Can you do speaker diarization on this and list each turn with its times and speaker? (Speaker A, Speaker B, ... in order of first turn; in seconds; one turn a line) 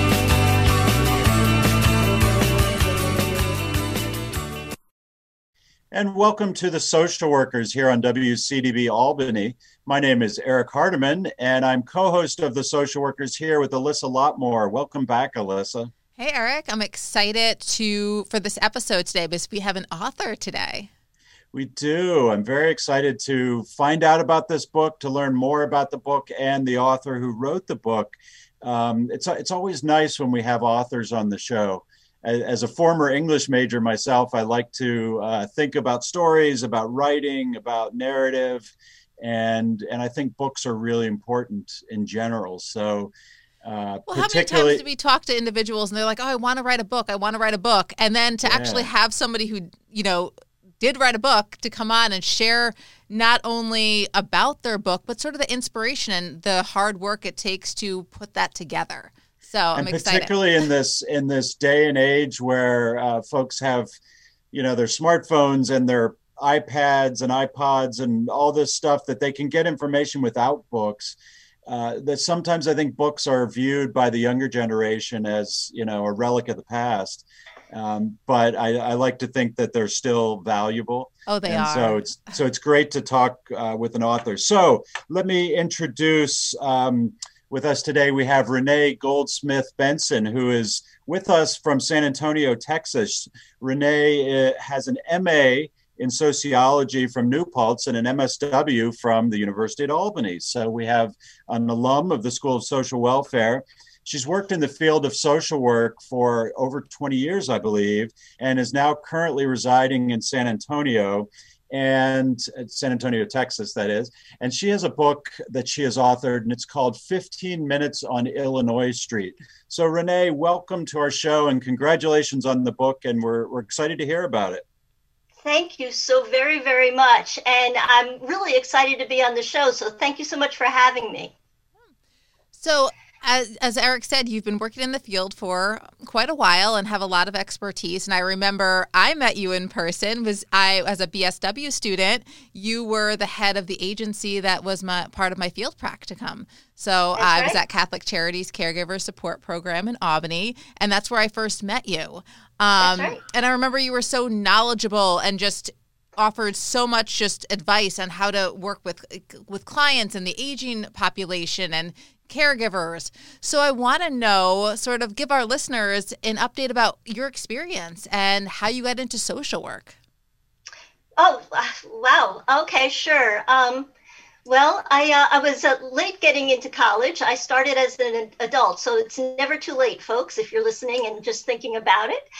Speaker A: 5.9-15.9
Speaker B: 16.2-20.9
Speaker A: 21.5-43.1
Speaker A: 43.6-44.8
Speaker B: 44.1-60.3
Speaker A: 48.4-48.9
Speaker A: 59.7-63.9
Speaker A: 64.5-124.6
Speaker B: 81.3-82.0
Speaker C: 125.4-131.3
Speaker B: 132.5-169.9
Speaker C: 147.2-147.6
Speaker C: 152.8-153.2
Speaker C: 171.2-173.9
Speaker C: 174.4-182.2